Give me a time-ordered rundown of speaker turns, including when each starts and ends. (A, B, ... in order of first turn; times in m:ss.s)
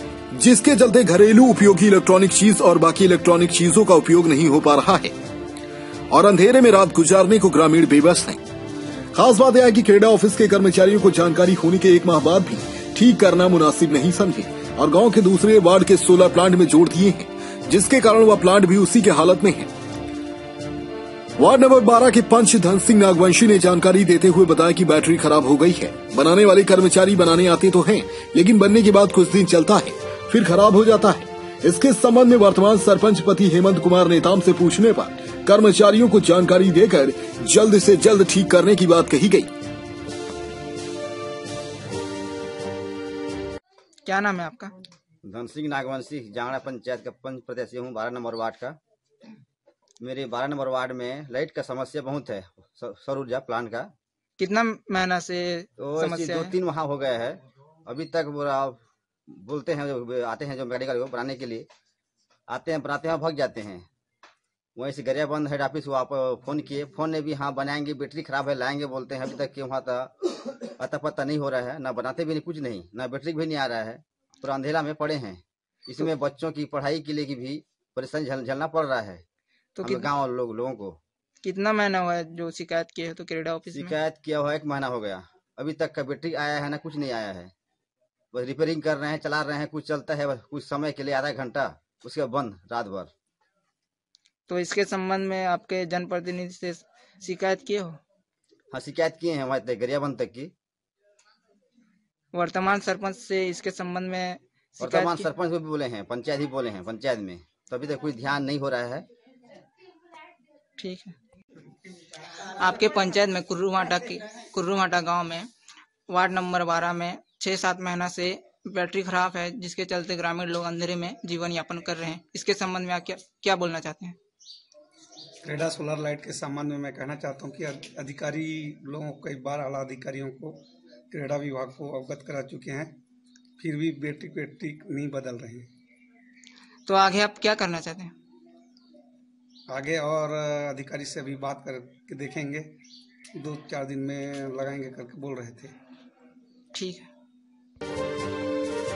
0:00.3-0:05.1 A
0:06.1-0:08.4 A
0:09.1-0:19.7 A
0:21.4-0:39.5 A
0:44.0-0:44.7 B
0:45.2-0:48.8 C
0:50.0-0:53.9 C
0:54.4-0:56.5 B
0:55.8-0:58.8 C
0:59.3-1:01.7 C
1:02.5-1:03.8 C
1:04.8-1:10.1 C
1:10.8-1:19.2 C
1:19.8-1:20.1 B
1:19.8-1:21.0 C
1:21.4-1:23.9 B
1:23.7-1:27.5 C
1:28.3-1:33.1 C
1:34.5-1:38.0 B
1:38.7-1:40.5 C
1:42.3-1:45.3 B
1:44.8-1:49.0 C
1:50.8-1:51.1 B
1:52.5-1:55.5 B
1:56.1-2:04.2 B
2:05.4-2:13.0 D
2:13.6-2:15.7 D
2:16.9-2:18.1 B
2:19.7-2:22.7 D
2:23.3-2:25.7 D
2:26.7-2:27.1 B